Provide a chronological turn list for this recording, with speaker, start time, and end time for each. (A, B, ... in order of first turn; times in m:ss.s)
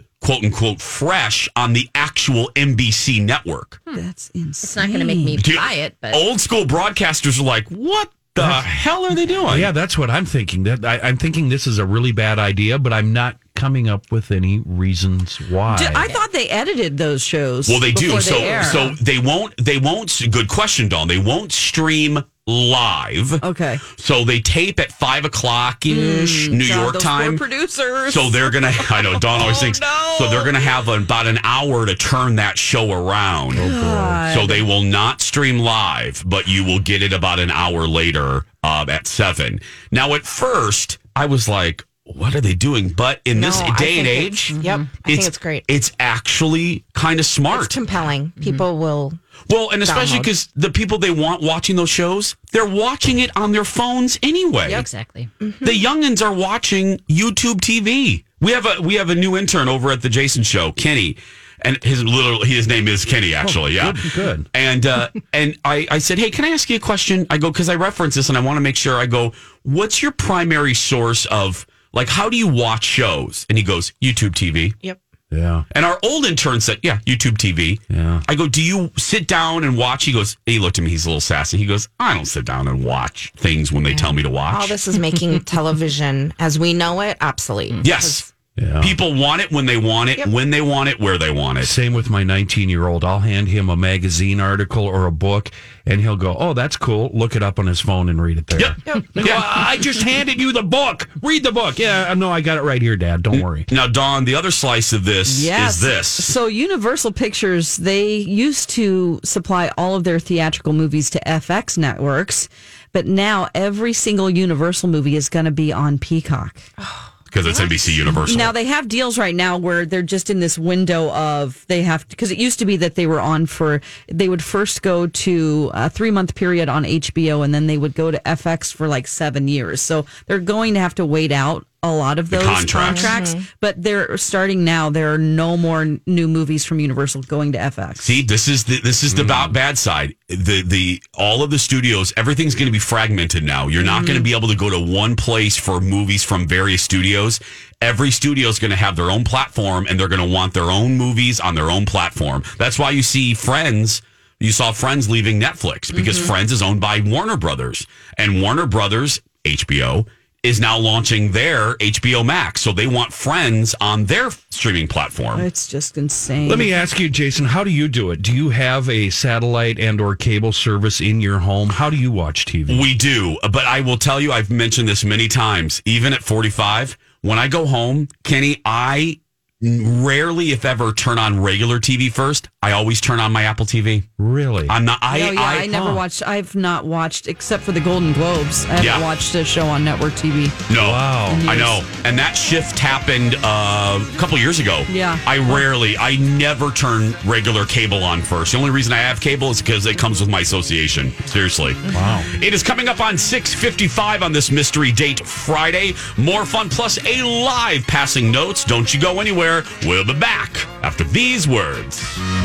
0:00.2-0:03.8 A
0:03.9-0:05.4 B
0:04.6-0:06.2 C
0:05.4-0:09.7 A
0:08.4-0:08.6 D
0:09.5-0:16.1 D
0:15.7-0:19.0 B
0:17.7-0:27.5 A
0:18.0-0:18.9 C
0:23.4-0:23.8 B
0:25.9-0:30.6 B
0:28.1-0:33.7 A
0:33.5-0:34.2 D
0:33.6-0:34.7 B
0:34.3-0:47.8 A
0:43.3-0:45.7 E
0:44.5-0:44.9 C
0:47.5-0:49.2 E
0:49.5-0:54.9 A
0:49.8-0:50.3 E
0:54.7-0:55.3 C
0:55.4-0:55.8 E
0:55.6-1:14.8 A
1:03.4-1:04.5 D
1:15.3-1:15.6 D
1:15.7-1:24.8 A
1:17.9-1:18.2 D
1:24.5-1:28.3 E
1:27.8-1:28.3 A
1:28.6-1:28.9 D
1:28.8-1:31.8 A
1:31.6-1:43.7 D
1:38.6-1:39.5 A
1:43.7-1:46.3 A
1:45.3-1:56.6 B
1:56.8-1:58.2 E
1:57.3-1:58.6 A
1:58.1-2:18.2 B
2:12.3-2:13.2 A
2:12.8-2:13.5 E
2:18.0-2:45.5 A
2:19.1-2:19.6 D
2:23.8-2:24.3 B
2:35.9-2:36.3 B
2:45.4-2:46.7 B
2:46.4-2:52.9 D
2:52.7-3:04.1 A
3:04.2-3:04.8 D
3:04.7-3:06.0 A
3:05.1-3:10.7 B
3:08.8-3:09.1 A
3:10.7-3:32.2 A
3:10.7-3:11.4 D
3:11.2-3:11.8 B
3:14.9-3:15.6 B
3:21.9-3:22.3 D